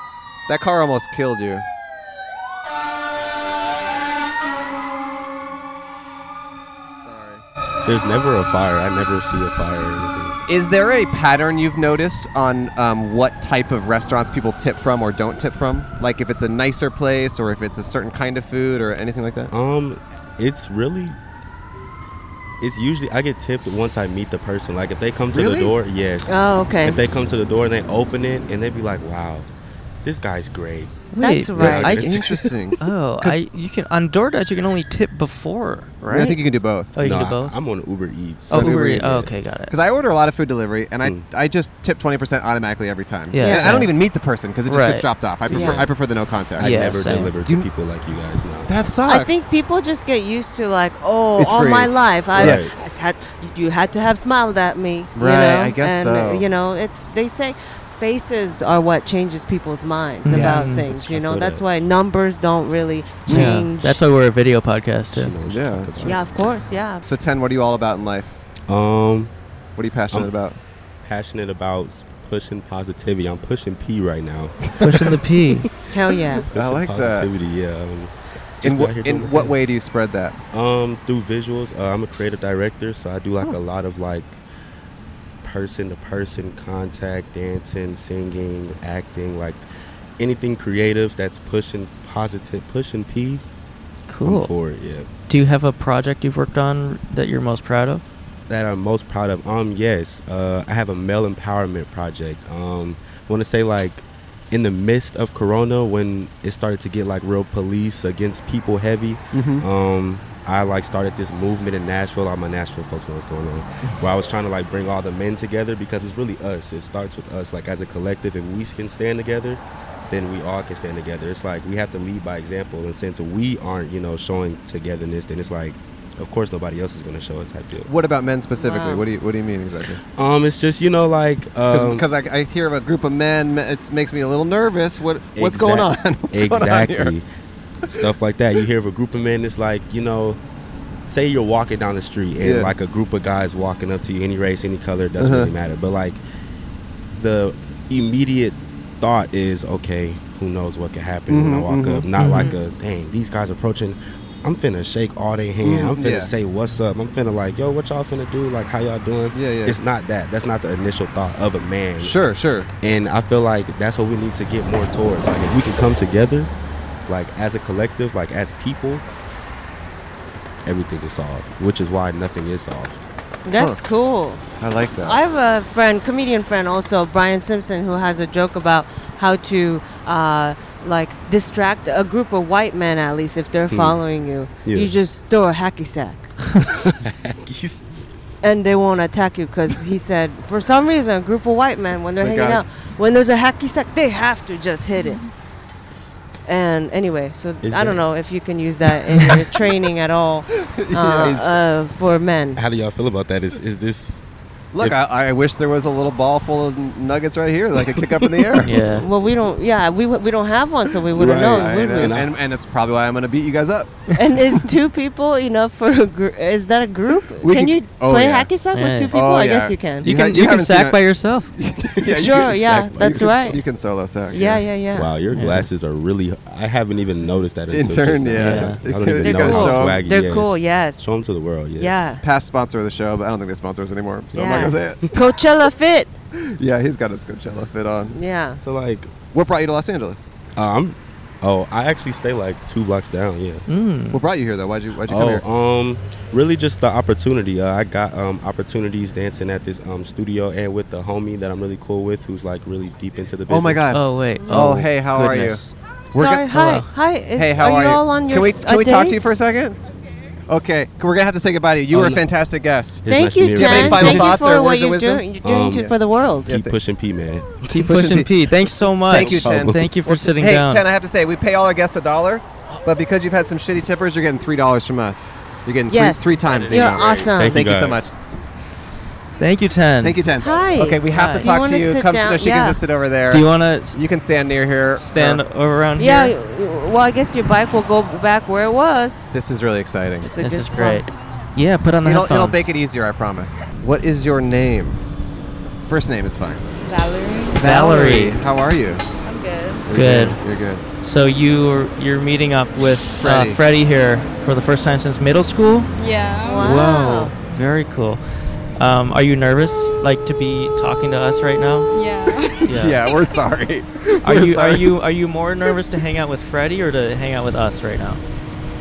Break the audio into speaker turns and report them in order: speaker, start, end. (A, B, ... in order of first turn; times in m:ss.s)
0:00.5-0:01.6 A
0:07.0-0:07.4 A
0:07.8-0:10.4 B
0:10.5-0:19.5 A
0:19.5-0:21.2 B
0:22.6-0:29.5 B
0:25.3-0:25.7 A
0:26.3-0:27.0 C
0:30.0-0:32.5 B
0:31.1-0:32.1 D
0:31.2-0:32.0 C
0:31.6-0:32.8 A
0:32.8-0:36.3 D
0:36.0-0:37.0 A
0:36.1-0:36.4 C
0:37.0-0:37.6 D
0:37.0-0:39.4 B
0:38.5-0:39.7 D
0:38.5-0:47.7 A
0:43.3-0:44.1 D
0:43.4-0:43.9 C
0:44.7-0:45.1 D
0:45.5-0:45.9 C
0:45.5-0:45.9 B
0:46.6-0:48.8 B
0:46.6-0:47.3 D
0:48.7-0:49.5 A
0:49.0-1:04.0 C
0:51.4-0:52.6 A
0:52.3-0:52.7 B
0:55.2-0:56.5 A
1:00.2-1:00.9 D
1:00.3-1:00.7 A
1:00.4-1:01.6 B
1:03.3-1:03.6 A
1:03.3-1:05.4 D
1:05.1-1:06.3 B
1:05.5-1:06.2 A
1:06.0-1:07.1 C
1:07.0-1:08.4 A
1:08.7-1:09.3 B
1:09.8-1:10.6 A
1:11.0-1:15.2 B
1:14.8-1:15.7 D
1:15.9-1:16.5 C
1:16.5-1:19.5 B
1:16.5-1:17.3 A
1:18.6-1:20.4 A
1:20.5-1:24.4 B
1:25.4-1:29.7 B
1:30.2-1:33.4 B
1:34.1-1:34.5 D
1:34.2-1:35.1 B
1:35.3-1:38.0 D
1:38.5-2:07.9 B
1:49.3-1:49.7 A
2:07.9-2:10.0 A
2:08.6-2:09.1 C
2:10.2-2:12.0 B
2:11.7-2:17.2 A
2:15.4-2:17.3 B
2:17.9-2:20.4 B
2:21.1-2:26.2 B
2:22.4-2:22.7 A
2:25.2-2:25.5 A
2:27.1-2:42.2 B
2:31.3-2:32.0 A
2:32.2-2:32.6 D
2:35.6-2:36.3 A
2:39.3-2:39.8 A
2:42.0-2:42.7 A
2:42.8-2:46.5 B
2:47.1-2:49.0 B
2:50.6-2:53.0 B
2:53.4-2:54.4 C
2:54.6-2:55.2 A
2:55.0-3:06.4 C
3:03.7-3:04.0 B
3:04.6-3:04.9 B
3:06.6-3:07.9 B
3:08.4-3:15.3 C
3:12.2-3:12.6 A
3:16.5-3:22.6 C
3:17.6-3:18.0 B
3:20.6-3:21.6 A
3:22.6-3:24.2 B
3:24.7-3:28.8 A
3:28.6-3:29.1 D
3:28.9-3:32.1 C
3:31.1-3:32.3 B
3:31.2-3:34.1 A
3:34.1-3:40.1 C
3:37.4-3:38.5 A
3:38.7-3:39.1 D
3:39.1-3:44.6 A
3:40.0-3:41.5 D
3:42.1-3:43.6 B
3:42.1-3:43.6 C
3:44.3-3:45.1 C
3:44.9-3:52.1 B
3:45.3-3:45.7 D
3:47.7-3:50.0 A
3:48.4-3:48.8 D
3:49.2-3:51.1 C
3:51.8-3:52.2 C
3:52.2-3:55.2 A
3:54.3-3:56.1 C
3:54.4-3:54.8 B
3:56.4-3:58.2 A
3:58.1-3:58.6 C
3:58.6-3:59.1 B
3:59.3-4:00.3 A
4:00.6-4:03.6 B
4:03.7-4:04.2 D
4:04.1-4:05.4 A
4:05.0-4:14.0 B
4:13.5-4:19.8 A
4:13.9-4:15.7 D
4:14.5-4:14.9 B
4:16.1-4:19.2 C
4:16.6-4:16.9 D
4:20.5-4:25.4 A
4:21.9-4:22.2 B
4:23.0-4:24.5 B
4:23.1-4:26.6 C
4:25.4-4:27.9 B
4:26.5-4:26.8 A
4:27.7-4:30.8 D
4:27.8-4:28.3 A
4:29.1-4:38.1 A
4:29.1-4:29.9 B
4:35.9-4:37.7 C
4:37.0-4:38.0 B
4:39.4-4:40.2 D
4:40.0-4:45.4 A
4:40.4-4:42.8 C
4:41.1-4:41.5 D
4:43.3-4:44.0 D
4:45.0-4:46.3 D
4:46.0-4:49.3 C
4:49.3-4:50.3 A
4:50.2-4:51.1 C
4:50.4-4:52.7 D
4:52.0-4:55.0 A
4:55.8-4:56.7 A
4:56.8-4:57.6 E
4:57.6-4:59.1 A
4:57.6-4:58.5 D
4:59.2-4:59.8 E
4:59.8-5:00.8 A
4:59.9-5:00.4 D
5:01.0-5:05.9 D
5:03.2-5:03.6 A
5:06.0-5:06.7 E
5:06.4-5:07.4 C
5:06.5-5:11.9 D
5:11.9-5:12.8 E
5:12.6-5:13.0 D
5:12.7-5:15.0 A
5:14.2-5:18.2 D